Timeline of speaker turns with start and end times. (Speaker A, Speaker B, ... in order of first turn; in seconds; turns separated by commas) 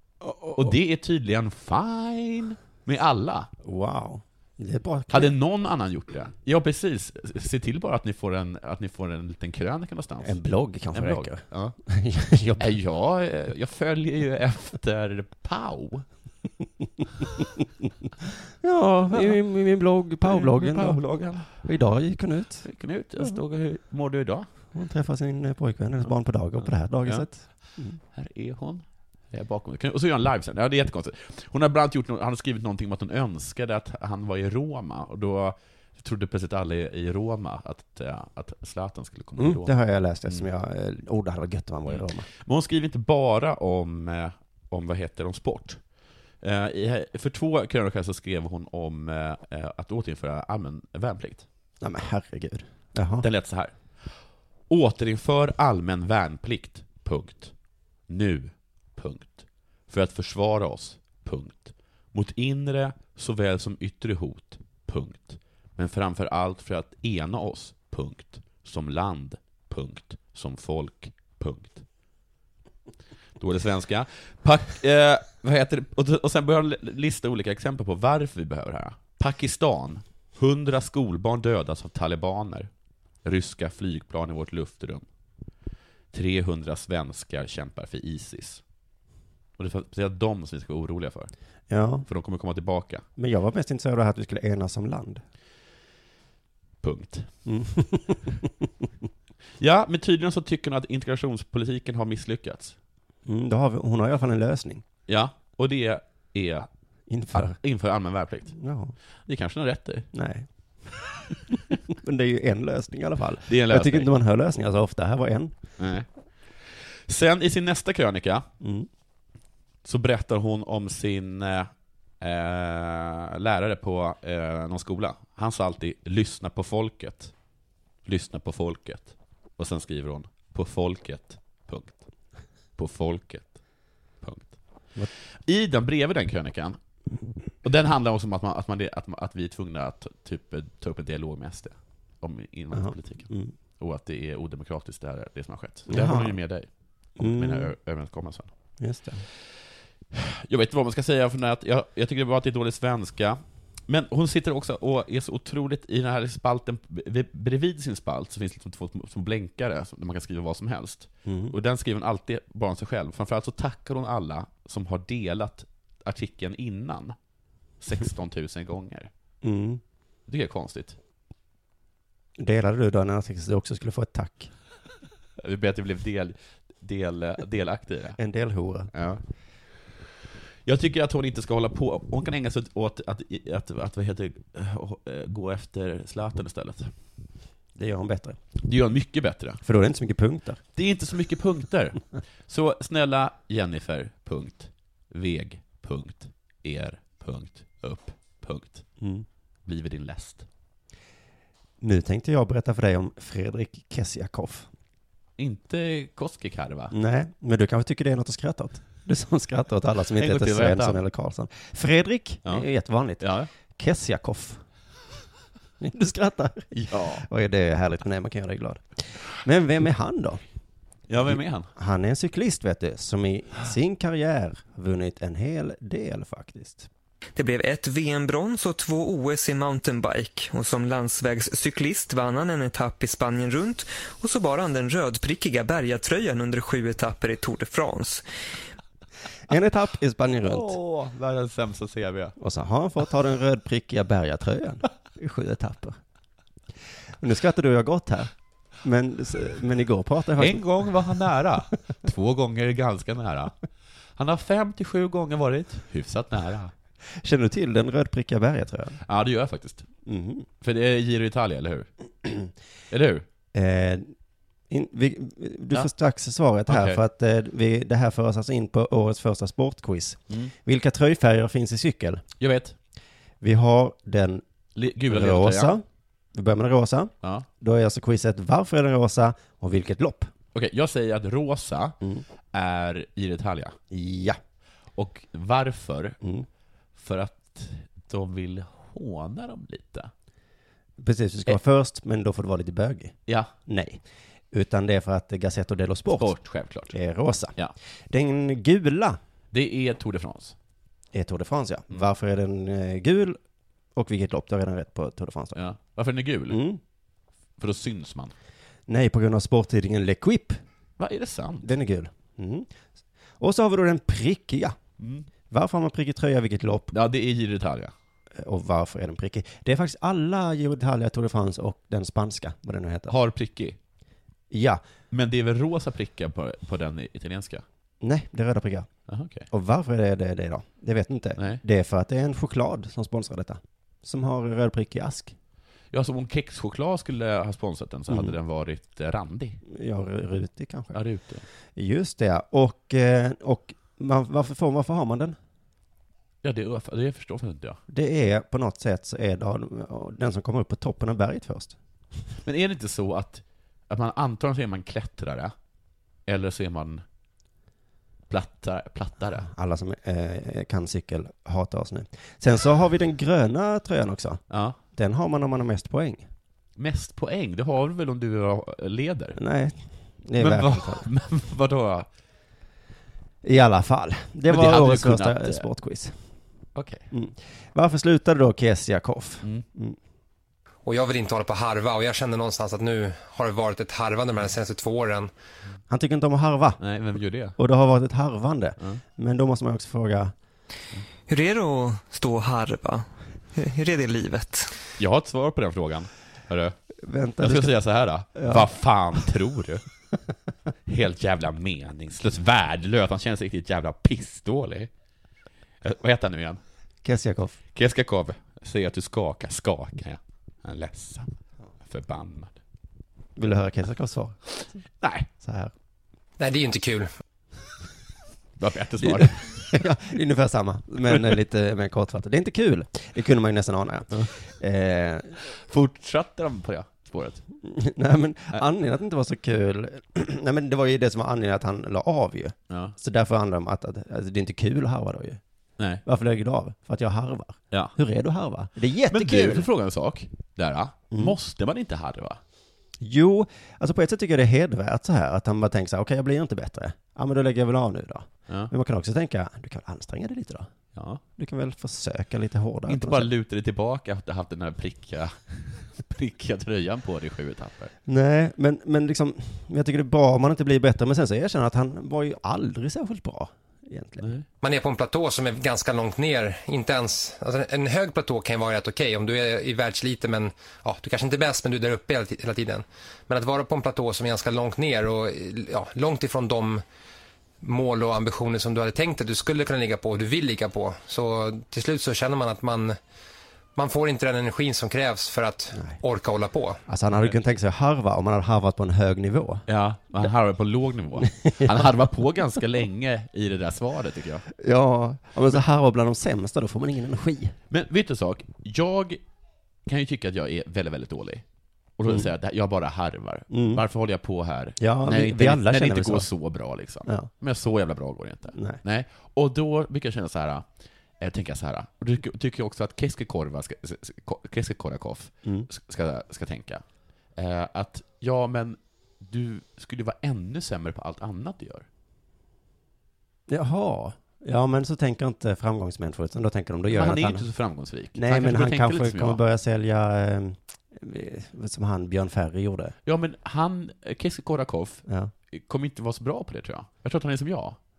Speaker A: 0.2-0.8, Speaker B: 0.6-3.5, Speaker A: 3.6-5.3, Speaker B: 5.1-10.4, Speaker A: 10.2-12.7, Speaker B: 10.9-11.8, Speaker B: 12.6-16.1, Speaker A: 18.6-22.7, Speaker B: 20.2-21.5, Speaker B: 22.6-24.5, Speaker A: 24.7-28.0, Speaker B: 28.1-39.7, Speaker A: 39.4-42.3, Speaker B: 41.9-45.8, Speaker B: 46.4-51.5, Speaker A: 51.8-53.3, Speaker B: 53.2-57.5, Speaker B: 58.1-71.8, Speaker B: 73.4-82.7, Speaker B: 83.2-85.0, Speaker B: 86.1-88.6, Speaker B: 89.6-91.3, Speaker A: 91.7-92.1, Speaker B: 92.1-93.0, Speaker A: 93.2-95.2, Speaker B: 96.8-97.3, Speaker A: 97.5-98.5, Speaker B: 99.6-102.8, Speaker A: 103.3-104.8, Speaker B: 105.1-106.7, Speaker A: 107.1-107.5, Speaker B: 107.3-108.6, Speaker A: 108.5-109.0, Speaker B: 109.3-110.1, Speaker A: 110.1-110.5, Speaker A: 111.5-115.5, Speaker B: 113.5-114.1, Speaker B: 115.8-118.5, Speaker A: 118.6-118.9, Speaker B: 119.8-127.3, Speaker B: 128.1-132.1, Speaker B: 132.8-133.6, Speaker B: 134.2-134.6, Speaker B: 135.2-136.8, Speaker B: 137.6-148.5, Speaker A: 142.7-143.5, Speaker A: 145.9-146.4, Speaker A: 147.2-147.7, Speaker A: 148.8-149.3, Speaker B: 150.1-167.2, Speaker A: 161.3-161.6, Speaker B: 167.8-169.1, Speaker A: 169.4-169.8, Speaker B: 170.3-171.0, Speaker A: 172.4-174.5, Speaker B: 175.4-178.2, Speaker A: 178.2-178.9, Speaker B: 178.9-179.2, Speaker B: 180.7-186.9, Speaker A: 187.8-188.4, Speaker B: 188.6-189.6, Speaker A: 189.6-190.6, Speaker B: 190.8-198.9, Speaker A: 199.0-199.3, Speaker B: 199.7-200.5, Speaker A: 201.8-204.7, Speaker B: 205.4-206.9, Speaker A: 206.9-214.6, Speaker B: 210.2-211.0, Speaker B: 213.2-213.5, Speaker A: 215.8-220.4, Speaker B: 216.7-217.3, Speaker B: 221.1-221.7, Speaker A: 221.2-226.9, Speaker C: 227.4-238.2, Speaker A: 239.5-240.8, Speaker B: 240.4-242.3, Speaker A: 242.4-246.0, Speaker A: 247.2-248.3, Speaker A: 248.8-250.9, Speaker B: 250.4-253.5, Speaker B: 254.2-256.7, Speaker A: 257.0-259.0, Speaker B: 259.0-259.9, Speaker A: 260.1-260.5, Speaker B: 260.6-261.9, Speaker A: 262.2-262.5, Speaker B: 262.9-263.3, Speaker A: 263.5-264.1, Speaker A: 264.7-272.2, Speaker B: 266.7-267.0, Speaker B: 272.4-272.8, Speaker A: 273.4-274.4, Speaker B: 274.8-275.8, Speaker A: 275.1-275.8, Speaker A: 276.3-280.3, Speaker B: 280.6-282.0, Speaker B: 282.5-283.8, Speaker A: 283.9-284.4, Speaker B: 285.0-286.2, Speaker B: 287.0-290.1, Speaker A: 291.0-296.4, Speaker B: 293.3-293.5, Speaker B: 296.1-297.0, Speaker A: 296.9-297.6, Speaker A: 298.1-299.2, Speaker B: 299.5-300.6, Speaker A: 301.1-303.4, Speaker A: 304.0-305.6, Speaker B: 305.6-306.6, Speaker A: 306.5-306.8, Speaker B: 307.6-308.3, Speaker A: 308.9-310.6, Speaker B: 311.0-311.7, Speaker A: 311.6-312.7, Speaker A: 313.4-314.8, Speaker B: 315.0-315.3, Speaker A: 315.5-316.9, Speaker B: 316.9-317.9, Speaker A: 318.4-323.1, Speaker B: 323.1-323.8, Speaker A: 324.5-324.8, Speaker B: 325.1-327.6, Speaker A: 328.0-328.9, Speaker B: 329.1-329.5, Speaker A: 329.5-335.4, Speaker B: 331.4-331.6, Speaker B: 335.9-339.6, Speaker A: 338.1-338.4, Speaker A: 339.7-341.0, Speaker B: 340.9-341.4, Speaker A: 341.8-345.4, Speaker B: 346.4-347.8, Speaker A: 347.9-351.8, Speaker B: 352.4-355.5, Speaker B: 356.3-357.0, Speaker B: 358.3-359.5, Speaker A: 359.3-366.3, Speaker B: 364.5-364.8, Speaker B: 366.8-369.4, Speaker A: 369.4-371.1, Speaker B: 370.4-372.1, Speaker A: 373.4-376.2, Speaker B: 374.5-375.7, Speaker B: 376.8-377.1, Speaker A: 377.1-380.0, Speaker D: 380.9-385.3, Speaker A: 385.9-386.8, Speaker B: 386.8-387.6, Speaker A: 387.6-390.3, Speaker C: 391.3-394.7, Speaker B: 395.0-396.8, Speaker A: 397.0-397.8, Speaker B: 397.4-399.8, Speaker A: 398.4-398.7, Speaker B: 400.9-404.9, Speaker B: 405.8-406.6, Speaker A: 407.0-407.6, Speaker B: 407.7-412.6, Speaker A: 413.4-414.4, Speaker B: 414.6-415.3, Speaker A: 415.4-415.7, Speaker D: 416.4-417.1, Speaker B: 418.6-419.8, Speaker A: 419.0-425.4, Speaker B: 425.4-427.5, Speaker A: 427.6-435.4, Speaker B: 432.7-432.9, Speaker A: 436.1-439.7, Speaker B: 439.1-442.4, Speaker A: 441.1-441.4, Speaker A: 443.0-450.7, Speaker B: 450.9-451.2, Speaker A: 451.4-453.3, Speaker B: 452.9-457.9, Speaker A: 458.1-464.3, Speaker B: 464.2-464.5, Speaker D: 464.6-476.8, Speaker D: 477.6-483.0, Speaker D: 483.8-486.8, Speaker A: 486.9-489.7, Speaker B: 489.7-494.5, Speaker A: 491.4-491.9, Speaker A: 494.5-497.6, Speaker B: 497.7-499.2, Speaker B: 499.9-501.4, Speaker B: 502.0-510.7, Speaker A: 503.5-503.8, Speaker A: 504.8-506.3, Speaker A: 508.6-508.8, Speaker B: 511.2-516.8, Speaker B: 517.4-521.9, Speaker A: 523.5-527.5, Speaker B: 526.9-529.4, Speaker A: 528.1-533.0, Speaker B: 533.1-537.8, Speaker A: 535.1-535.3